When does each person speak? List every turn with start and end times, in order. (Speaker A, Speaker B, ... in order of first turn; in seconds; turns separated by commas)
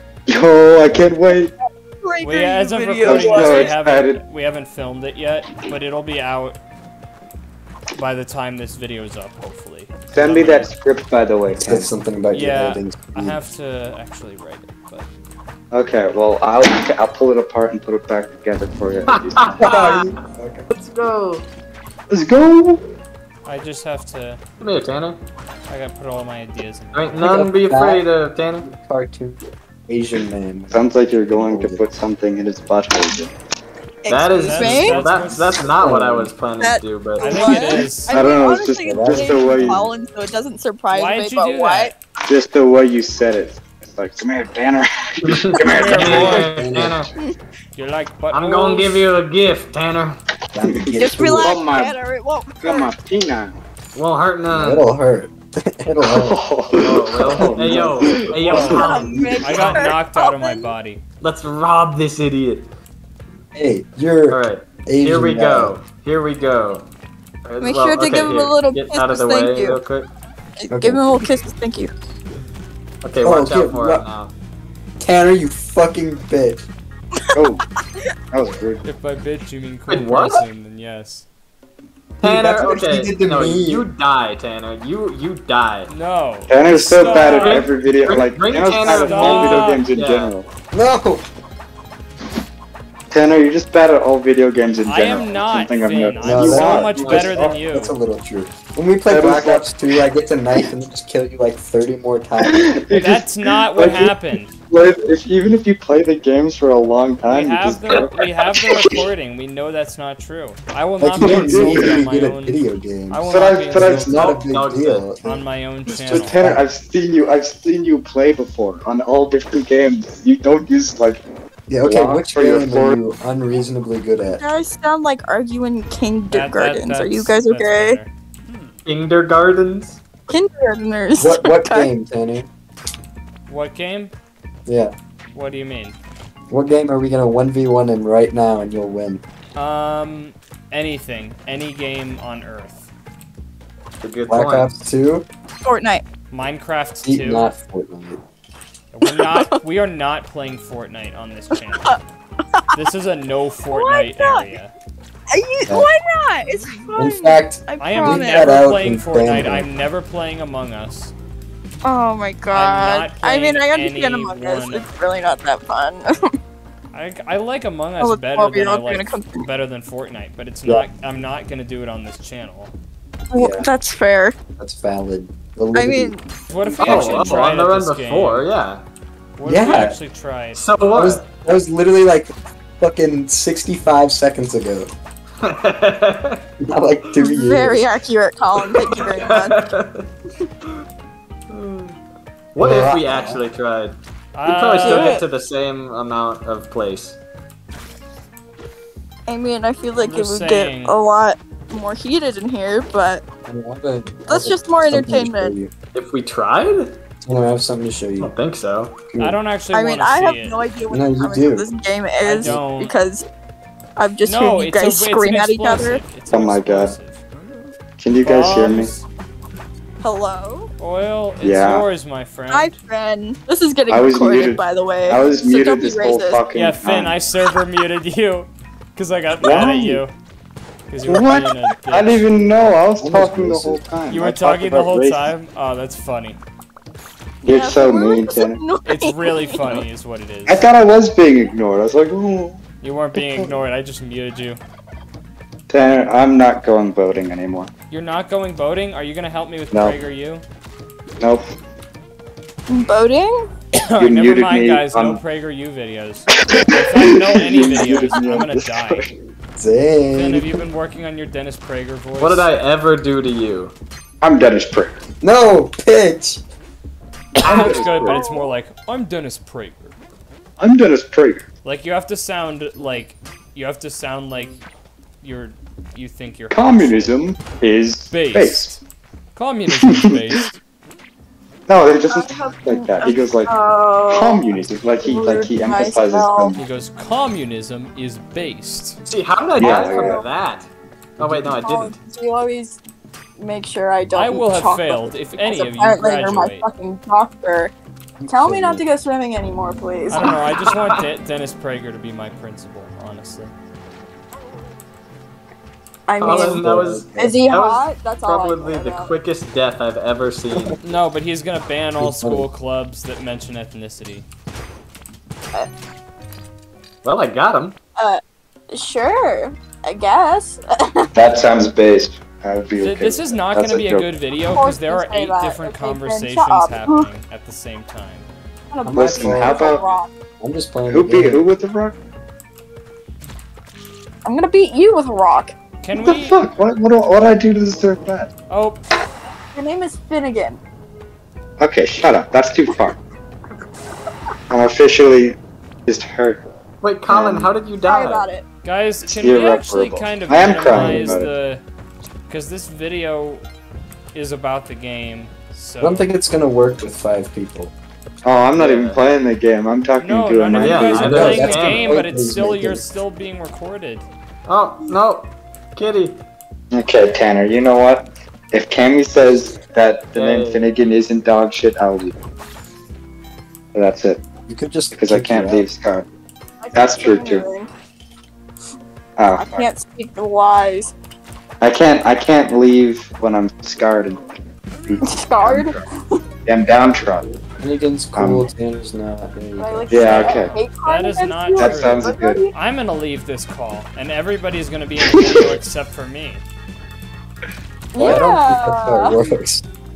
Speaker A: 0.3-1.5, Speaker B: 2.0-3.7, Speaker C: 2.2-6.6, Speaker A: 3.0-4.2, Speaker C: 8.0-10.7, Speaker A: 10.1-11.9, Speaker D: 11.5-13.4, Speaker C: 12.3-15.1, Speaker A: 15.7-19.9, Speaker E: 19.1-20.1, Speaker D: 19.6-20.7, Speaker E: 20.7-21.5, Speaker A: 22.1-22.8, Speaker C: 23.5-24.4, Speaker E: 24.6-25.2, Speaker C: 25.7-27.4, Speaker E: 26.9-28.7, Speaker D: 27.2-28.1, Speaker D: 28.6-31.9, Speaker A: 30.7-33.3, Speaker B: 34.0-35.1, Speaker E: 34.1-37.6, Speaker C: 34.4-35.7, Speaker D: 35.8-36.3, Speaker B: 36.6-41.9, Speaker C: 37.2-38.2, Speaker A: 38.1-39.9, Speaker D: 38.8-39.9, Speaker C: 40.9-41.9, Speaker A: 42.3-46.4, Speaker E: 45.2-47.1, Speaker C: 45.7-46.5, Speaker D: 46.0-47.0, Speaker C: 47.8-49.1, Speaker E: 48.3-50.2, Speaker D: 50.5-51.6, Speaker A: 50.6-52.0, Speaker B: 50.9-52.9, Speaker A: 52.6-53.6, Speaker E: 54.0-54.9, Speaker D: 54.5-56.4, Speaker A: 56.0-59.6, Speaker E: 56.8-59.1, Speaker D: 57.4-58.3, Speaker C: 58.4-61.0, Speaker B: 58.5-60.7, Speaker D: 58.9-59.6, Speaker E: 61.2-62.7, Speaker D: 63.5-65.7, Speaker E: 64.3-66.9, Speaker E: 67.5-70.1, Speaker B: 67.6-69.8, Speaker B: 70.6-71.9, Speaker D: 70.7-71.2, Speaker E: 73.0-74.3, Speaker D: 73.2-74.0, Speaker D: 75.0-76.7, Speaker A: 77.3-77.6, Speaker A: 78.3-78.8, Speaker C: 78.8-81.3, Speaker E: 79.9-80.4, Speaker E: 82.2-85.9, Speaker D: 82.2-83.9, Speaker C: 85.9-87.7, Speaker A: 86.5-90.5, Speaker E: 86.7-90.3, Speaker C: 88.7-89.8, Speaker D: 90.7-91.3, Speaker A: 93.1-97.5, Speaker C: 94.8-98.0, Speaker D: 96.2-102.7, Speaker A: 99.1-99.8, Speaker A: 102.4-104.2, Speaker C: 102.9-104.6, Speaker A: 104.7-108.9, Speaker C: 107.3-114.4, Speaker D: 111.0-115.4, Speaker A: 111.2-112.0, Speaker A: 113.3-114.4, Speaker E: 114.4-115.1, Speaker C: 115.2-116.5, Speaker A: 116.0-121.2, Speaker D: 116.1-116.6, Speaker D: 121.7-124.4, Speaker A: 121.8-123.0, Speaker B: 124.4-128.0, Speaker C: 126.3-128.8, Speaker E: 128.9-130.0, Speaker B: 130.3-131.9, Speaker D: 131.2-132.5, Speaker C: 133.5-134.1, Speaker D: 134.7-134.9, Speaker C: 135.3-136.0, Speaker D: 136.5-139.2, Speaker C: 139.6-142.9, Speaker E: 144.0-144.8, Speaker D: 144.3-145.3, Speaker B: 145.6-146.0, Speaker C: 146.3-147.5, Speaker D: 147.0-148.2, Speaker C: 148.9-152.0, Speaker B: 149.1-149.6, Speaker C: 152.7-154.7, Speaker B: 153.7-154.5, Speaker B: 155.3-158.6, Speaker D: 157.0-159.7, Speaker C: 157.8-161.1, Speaker B: 161.8-166.3, Speaker C: 162.5-164.9, Speaker C: 166.9-172.7, Speaker B: 168.0-169.5, Speaker B: 173.3-174.3, Speaker A: 173.3-173.7, Speaker D: 174.6-176.1, Speaker B: 175.7-177.3, Speaker C: 176.5-178.5, Speaker E: 176.8-178.8, Speaker C: 179.4-180.6, Speaker D: 179.4-180.0, Speaker E: 180.6-181.2, Speaker D: 180.9-184.9, Speaker E: 185.4-186.5, Speaker D: 186.6-187.9, Speaker B: 187.2-189.6, Speaker E: 188.6-190.1, Speaker E: 191.5-192.0, Speaker E: 192.5-197.2, Speaker D: 192.6-193.4, Speaker C: 194.3-195.2, Speaker B: 194.8-195.2, Speaker B: 199.3-203.2, Speaker C: 200.0-201.0, Speaker D: 203.5-205.7, Speaker B: 204.3-205.5, Speaker E: 205.9-207.0, Speaker D: 207.2-208.3, Speaker E: 208.2-209.0, Speaker D: 209.1-209.4, Speaker C: 209.2-210.6, Speaker B: 209.7-213.2, Speaker D: 210.9-211.7, Speaker C: 212.2-213.0, Speaker B: 214.0-216.0, Speaker C: 214.2-217.2, Speaker A: 216.3-217.0, Speaker A: 218.0-218.9, Speaker C: 218.2-219.1, Speaker B: 220.0-220.7, Speaker C: 220.8-222.7, Speaker A: 221.4-221.9, Speaker B: 222.5-226.4, Speaker A: 223.9-227.2, Speaker C: 226.5-230.1, Speaker A: 229.4-230.0, Speaker C: 230.9-232.3, Speaker A: 231.1-235.3, Speaker D: 233.0-233.8, Speaker C: 234.1-236.4, Speaker A: 237.4-238.6, Speaker B: 237.4-239.8, Speaker C: 238.8-240.7, Speaker A: 240.5-242.6, Speaker C: 242.8-244.6, Speaker A: 243.2-243.5, Speaker A: 245.7-247.7, Speaker C: 247.9-250.4, Speaker A: 251.2-251.5, Speaker B: 252.7-253.5, Speaker C: 253.8-259.1, Speaker A: 254.0-255.2, Speaker A: 256.3-259.1, Speaker D: 259.6-260.6, Speaker C: 260.1-262.5, Speaker E: 262.2-263.7, Speaker A: 264.2-265.0, Speaker D: 265.2-266.4, Speaker A: 267.4-268.2, Speaker C: 267.4-269.9, Speaker B: 267.6-268.5, Speaker A: 270.6-271.4, Speaker C: 271.6-274.6, Speaker C: 275.2-277.2, Speaker A: 276.5-278.8, Speaker C: 278.1-278.8, Speaker C: 279.4-280.6, Speaker A: 279.8-280.4, Speaker A: 281.7-283.6, Speaker B: 282.1-286.6, Speaker A: 284.1-286.6, Speaker C: 286.6-289.0, Speaker E: 289.1-292.0, Speaker A: 289.6-290.2, Speaker B: 289.6-290.2, Speaker D: 291.2-291.4, Speaker B: 291.5-292.8, Speaker B: 293.4-297.7, Speaker C: 294.1-296.7, Speaker D: 298.2-298.8, Speaker B: 298.3-300.4, Speaker C: 300.1-303.5, Speaker E: 300.2-301.1, Speaker B: 306.1-309.1, Speaker E: 306.2-310.8, Speaker D: 306.2-307.4, Speaker D: 310.5-310.8, Speaker C: 310.8-314.3, Speaker D: 312.0-312.5, Speaker E: 317.0-317.8, Speaker B: 318.0-321.1, Speaker A: 321.1-324.1, Speaker C: 322.8-328.3, Speaker B: 324.5-327.1, Speaker B: 328.7-330.1, Speaker D: 328.8-329.8, Speaker A: 328.9-329.9, Speaker D: 330.4-331.4, Speaker A: 330.9-332.0, Speaker B: 334.2-335.5, Speaker C: 335.8-336.4, Speaker A: 335.9-338.3, Speaker C: 338.5-338.9, Speaker B: 339.5-340.6, Speaker A: 341.6-343.0, Speaker A: 344.5-346.4, Speaker E: 346.8-348.3, Speaker A: 347.1-347.5, Speaker B: 347.9-348.4, Speaker C: 348.6-351.6, Speaker A: 349.1-351.3, Speaker D: 350.7-351.3, Speaker C: 352.3-353.4, Speaker C: 354.1-356.1, Speaker D: 355.8-357.7, Speaker A: 358.2-361.5, Speaker E: 358.6-359.0, Speaker C: 360.0-364.1, Speaker E: 360.5-362.0, Speaker D: 360.9-362.9, Speaker E: 364.5-366.2, Speaker A: 366.7-372.2, Speaker E: 370.1-370.7, Speaker A: 373.7-374.2, Speaker D: 374.5-375.7, Speaker A: 375.0-376.1, Speaker B: 376.6-377.7, Speaker A: 376.7-377.5, Speaker A: 379.2-379.7, Speaker B: 379.3-380.9, Speaker A: 381.6-384.3, Speaker A: 384.8-385.8, Speaker B: 385.0-386.2, Speaker A: 386.4-387.3, Speaker D: 387.6-390.2, Speaker A: 388.2-388.5, Speaker B: 389.6-392.5, Speaker A: 389.9-390.5, Speaker C: 390.0-396.4, Speaker A: 391.6-392.4, Speaker B: 397.9-399.3, Speaker D: 398.0-399.6